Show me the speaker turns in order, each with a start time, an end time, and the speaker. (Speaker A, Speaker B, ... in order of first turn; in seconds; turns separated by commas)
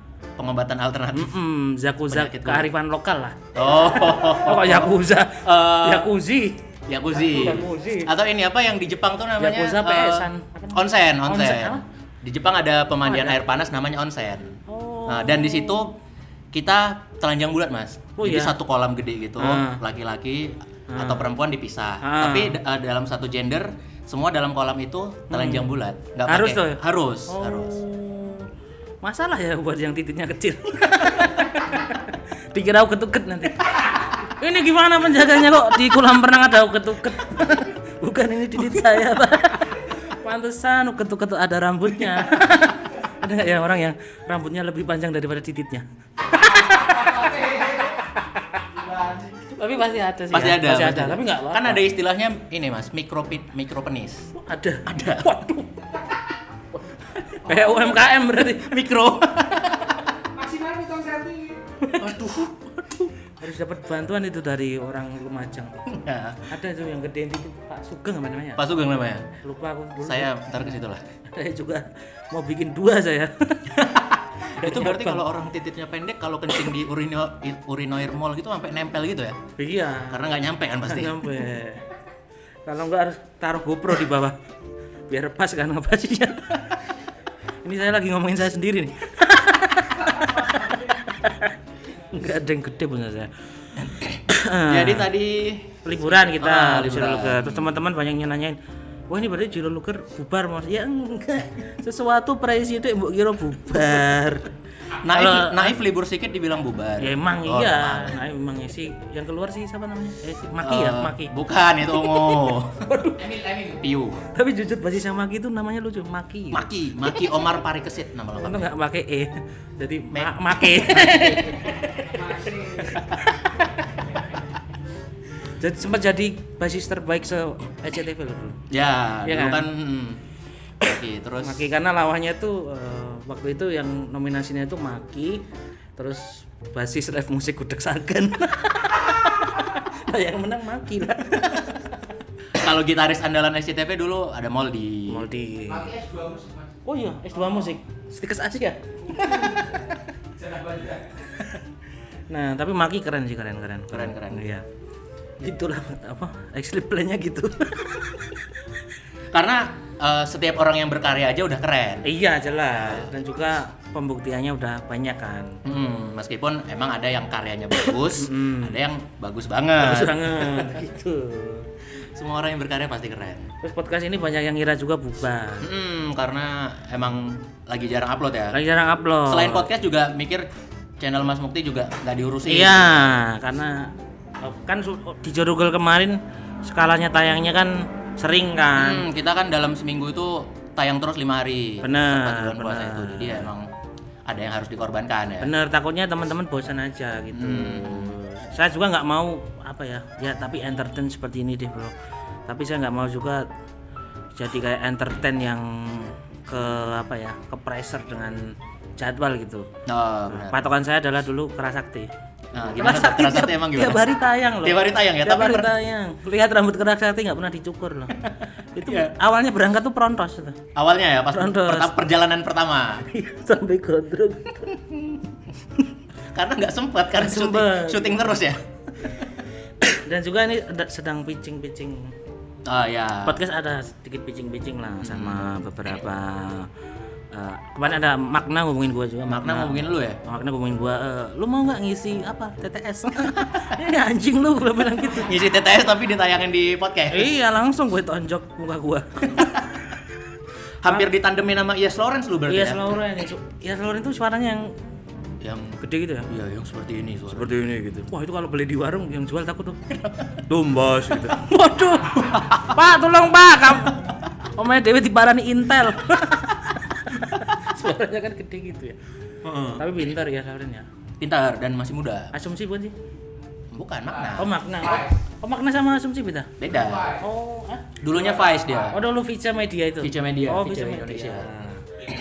Speaker A: 0.4-1.3, Speaker B: 1.1-8.1, Speaker A: 2.1-2.7, Speaker A: 3.5-6.1, Speaker A: 6.9-16.0, Speaker B: 9.4-11.8, Speaker B: 13.0-13.4, Speaker B: 14.7-15.8, Speaker A: 16.5-27.8, Speaker B: 18.2-18.6, Speaker B: 19.4-19.8, Speaker B: 20.9-21.3, Speaker B: 22.0-22.6, Speaker B: 25.3-25.7, Speaker B: 26.3-28.5, Speaker B: 29.0-48.6, Speaker C: 46.7-47.7, Speaker B: 49.3-51.8, Speaker A: 50.3-54.3, Speaker B: 54.3-55.9, Speaker A: 54.9-55.3, Speaker B: 57.2-58.8, Speaker A: 58.6-60.0, Speaker C: 60.4-61.5, Speaker B: 61.8-62.2, Speaker A: 61.9-63.1, Speaker B: 63.4-68.6, Speaker A: 65.9-66.5, Speaker A: 68.6-69.3, Speaker B: 69.4-70.4, Speaker A: 70.0-71.0, Speaker B: 71.3-73.8, Speaker A: 73.7-79.4, Speaker B: 74.5-75.2, Speaker B: 79.6-80.2, Speaker A: 80.1-81.4, Speaker B: 80.8-81.8, Speaker B: 82.7-84.4, Speaker B: 85.1-86.7, Speaker B: 87.6-91.6, Speaker B: 92.1-95.1, Speaker A: 94.7-97.7, Speaker B: 95.8-98.6, Speaker B: 99.1-104.5, Speaker A: 105.0-108.2, Speaker B: 105.1-105.7, Speaker B: 107.0-111.3, Speaker A: 110.6-114.3, Speaker B: 111.9-113.4, Speaker B: 114.3-116.7, Speaker A: 116.5-118.7, Speaker B: 118.4-123.9, Speaker A: 120.1-121.6, Speaker B: 125.5-128.6, Speaker A: 128.7-130.2, Speaker B: 129.2-129.7, Speaker A: 130.8-131.6, Speaker B: 131.4-135.4, Speaker B: 136.0-141.9, Speaker A: 142.5-145.3, Speaker B: 145.1-146.0, Speaker C: 145.9-146.6, Speaker B: 146.8-149.9, Speaker C: 150.6-150.9, Speaker B: 151.3-151.6, Speaker B: 152.3-154.6, Speaker A: 153.9-154.5, Speaker B: 155.4-158.5, Speaker A: 159.3-162.1, Speaker B: 162.0-165.6, Speaker A: 162.7-163.1, Speaker A: 165.6-170.8, Speaker B: 167.8-168.8, Speaker B: 169.8-171.7, Speaker A: 172.0-173.5, Speaker B: 173.6-175.7, Speaker A: 175.6-178.6, Speaker B: 178.5-179.7, Speaker A: 179.2-180.5, Speaker A: 181.0-182.9, Speaker B: 182.5-189.0, Speaker A: 188.8-193.7, Speaker B: 191.8-193.5, Speaker A: 194.3-195.5, Speaker B: 195.4-201.9, Speaker A: 197.3-198.1, Speaker B: 202.5-203.5, Speaker B: 204.3-209.7, Speaker A: 209.8-210.6, Speaker B: 210.3-212.1, Speaker A: 212.5-214.0, Speaker B: 212.8-218.2, Speaker A: 214.6-215.7, Speaker B: 218.7-220.6, Speaker A: 218.8-219.1, Speaker A: 220.7-223.0, Speaker B: 221.3-221.9, Speaker B: 223.0-225.1, Speaker A: 226.3-228.6, Speaker B: 227.2-228.1, Speaker B: 229.8-232.1, Speaker A: 232.6-233.4, Speaker B: 233.2-236.7, Speaker A: 235.0-235.5, Speaker B: 237.3-245.3, Speaker A: 239.3-240.2, Speaker A: 245.1-247.3, Speaker B: 247.1-249.6, Speaker A: 250.8-253.0, Speaker B: 252.5-254.7, Speaker A: 255.4-257.6, Speaker B: 255.8-256.3, Speaker B: 257.3-259.9, Speaker A: 259.9-260.3, Speaker B: 260.5-269.0, Speaker A: 262.3-262.6, Speaker A: 269.4-269.9, Speaker B: 269.7-270.9, Speaker A: 271.2-272.3, Speaker B: 272.3-272.9, Speaker A: 273.7-274.5, Speaker B: 274.4-276.5, Speaker A: 276.6-277.2, Speaker B: 277.2-277.9, Speaker A: 278.0-279.0, Speaker B: 278.9-281.9, Speaker A: 280.0-281.5